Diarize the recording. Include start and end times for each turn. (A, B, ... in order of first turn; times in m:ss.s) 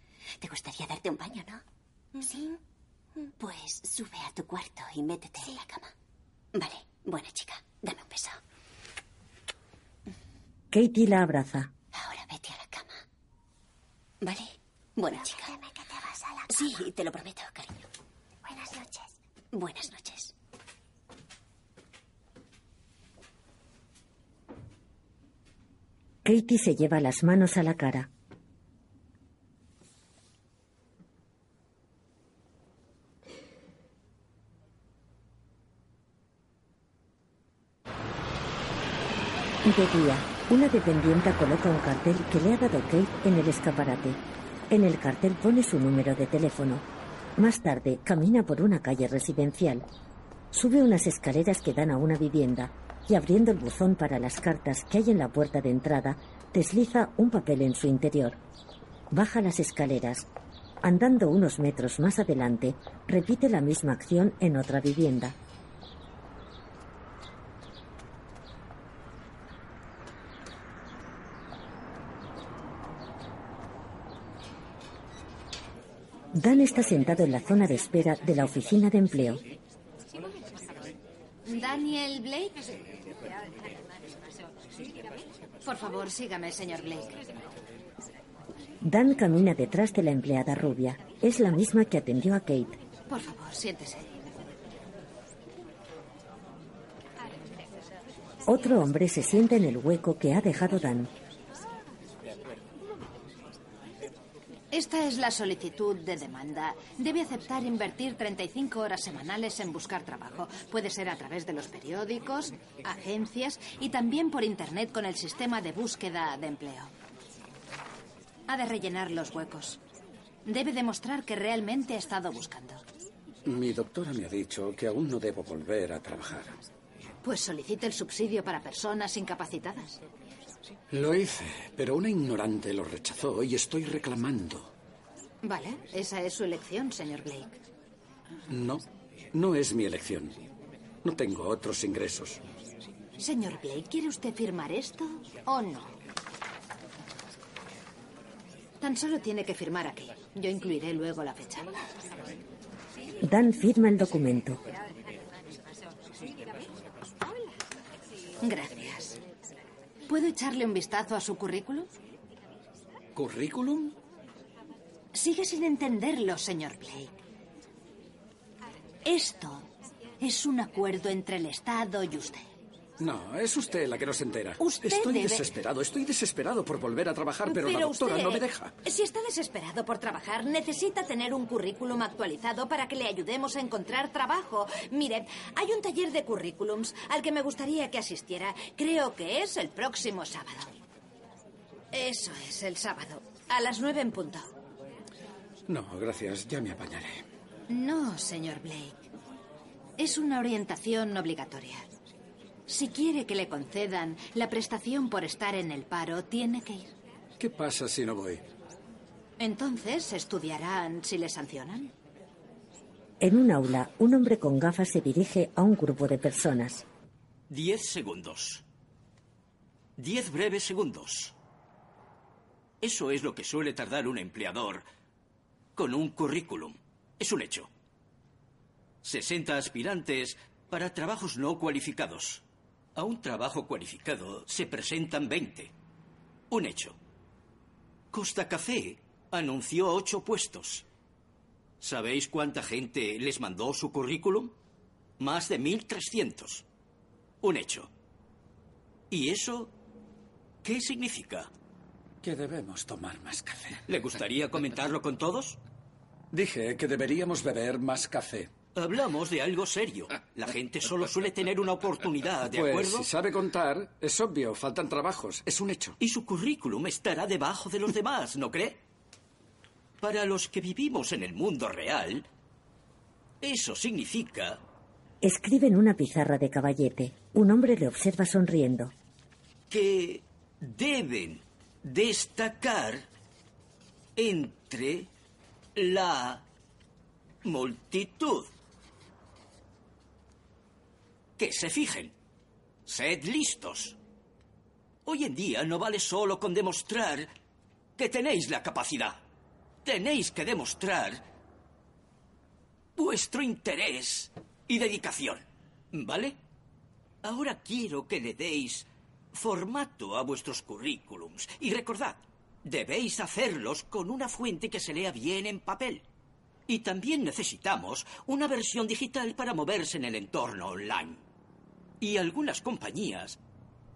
0:00.4-0:01.6 A
0:02.2-0:02.5 A
0:03.4-0:05.9 A
0:06.5-0:08.4 A
0:10.7-0:11.7 B
0:11.9-0:13.0 A
0:14.2-0:15.5 A
0:15.1-0:16.8 C
0:16.5-0:17.8 A
0:18.4-0:19.1 C
0:19.5-0:20.3 A
0:26.2-0:28.1 B
0:39.6-0:46.8 B
0:47.4-0:49.8 B
0:50.5-0:58.4 B
0:59.1-1:00.3 B
1:00.8-1:05.4 B
1:16.3-1:19.4 B
1:21.4-1:22.7 D
1:25.6-1:27.2 D
1:28.8-1:32.8 B
1:33.1-1:34.1 D
1:38.5-1:41.1 B
1:44.7-1:56.9 D
1:58.5-1:59.8 D
2:00.4-2:02.8 D
2:03.4-2:06.6 E
2:07.2-2:10.0 D
2:10.9-2:14.7 E
2:15.4-2:17.6 D
2:18.5-2:20.4 E
2:21.0-2:22.4 E
2:23.2-2:25.9 D
2:28.8-2:31.8 D
2:33.2-2:34.6 B
2:38.4-2:39.2 D
2:40.1-2:41.9 D
2:43.2-2:43.9 E
2:45.1-2:47.2 D
2:49.0-2:49.7 D
2:50.2-2:52.4 D
2:53.0-2:58.7 E
2:54.6-2:55.5 D
2:57.4-3:10.7 D
3:11.9-3:14.6 D
3:15.7-3:17.2 E
3:17.7-3:19.0 D
3:20.0-3:21.8 D
3:22.7-3:26.9 D
3:27.4-3:28.4 E
3:29.4-3:31.9 D
3:33.2-3:36.8 B
3:37.5-3:38.6 F
3:40.0-3:41.3 F
3:42.8-3:44.8 F
3:45.8-3:47.7 F
3:49.0-3:52.4 F
3:53.0-3:55.7 F
3:56.5-3:57.0 F
3:58.1-4:00.8 F
4:01.8-4:04.5 F
4:05.2-4:06.6 F
4:07.4-4:07.9 F
4:09.1-4:09.7 F
4:10.6-4:11.5 F
4:12.2-4:13.8 E
4:13.9-4:15.6 F
4:16.3-4:18.5 E
4:18.7-4:23.1 F
4:22.5-4:26.0 E
4:26.0-4:28.8 F
4:30.0-4:32.3 F
4:33.4-4:34.6 F
4:35.2-4:38.9 B
4:39.7-4:43.0 F
4:44.2-4:45.1 F
4:45.8-4:46.4 F
4:47.4-4:48.5 F
4:51.4-4:52.1 F
4:52.8-4:54.0 F
4:55.0-4:57.3 F
4:58.0-4:59.2 F
4:59.8-5:01.2 F
5:03.0-5:06.4 F
5:07.2-5:16.0 F
5:16.7-5:21.2 F
5:22.0-5:23.4 F